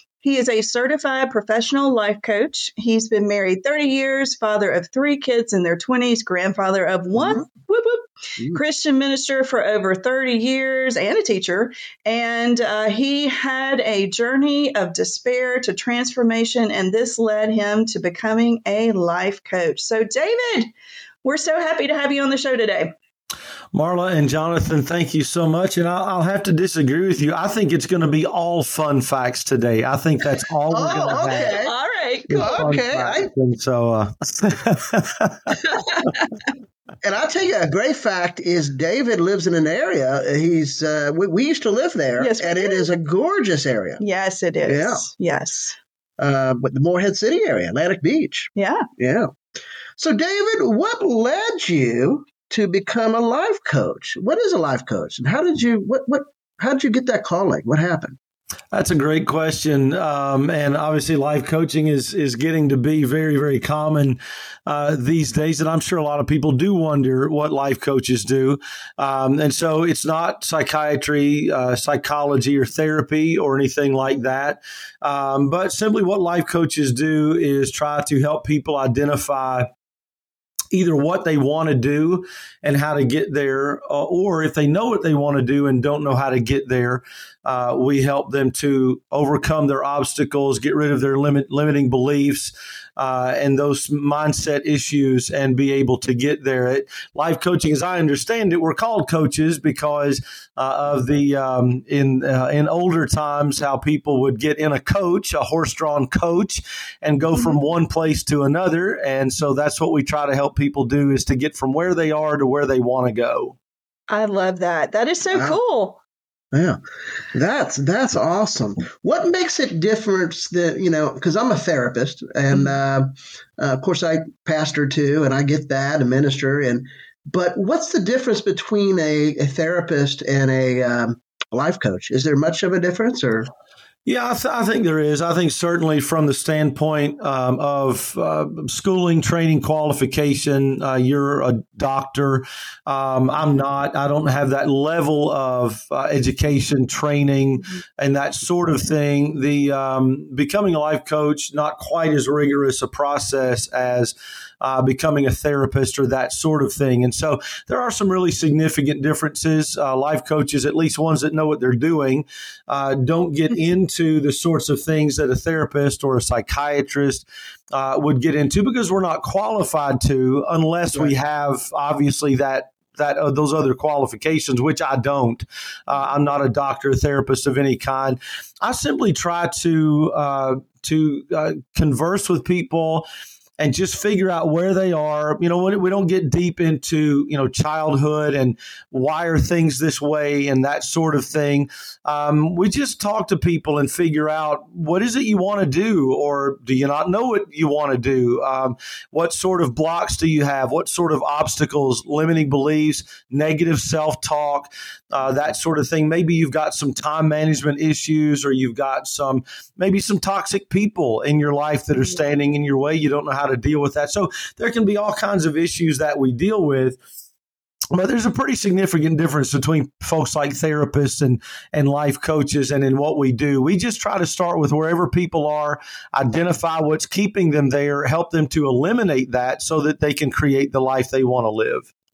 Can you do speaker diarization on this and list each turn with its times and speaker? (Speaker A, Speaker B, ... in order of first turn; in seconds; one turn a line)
Speaker A: 0.2-20.7
Speaker B: 7.1-7.4
Speaker A: 21.2-22.9
Speaker C: 23.7-31.6
Speaker B: 30.7-31.7
Speaker A: 30.9-32.7
Speaker C: 32.3-35.6
Speaker B: 32.4-33.3
Speaker B: 37.0-44.0
Speaker A: 42.2-42.9
Speaker A: 44.0-45.8
Speaker B: 44.6-45.1
Speaker B: 46.2-49.3
Speaker A: 48.6-48.9
Speaker B: 50.0-58.2
Speaker C: 58.7-79.7
Speaker C: 80.7-113.6
Speaker A: 114.1-116.0
Speaker B: 115.3-115.6
Speaker B: 116.5-116.8
Speaker B: 117.3-133.5
Speaker C: 134.1-183.1
Speaker C: 183.6-217.0
Speaker C: 217.9-231.9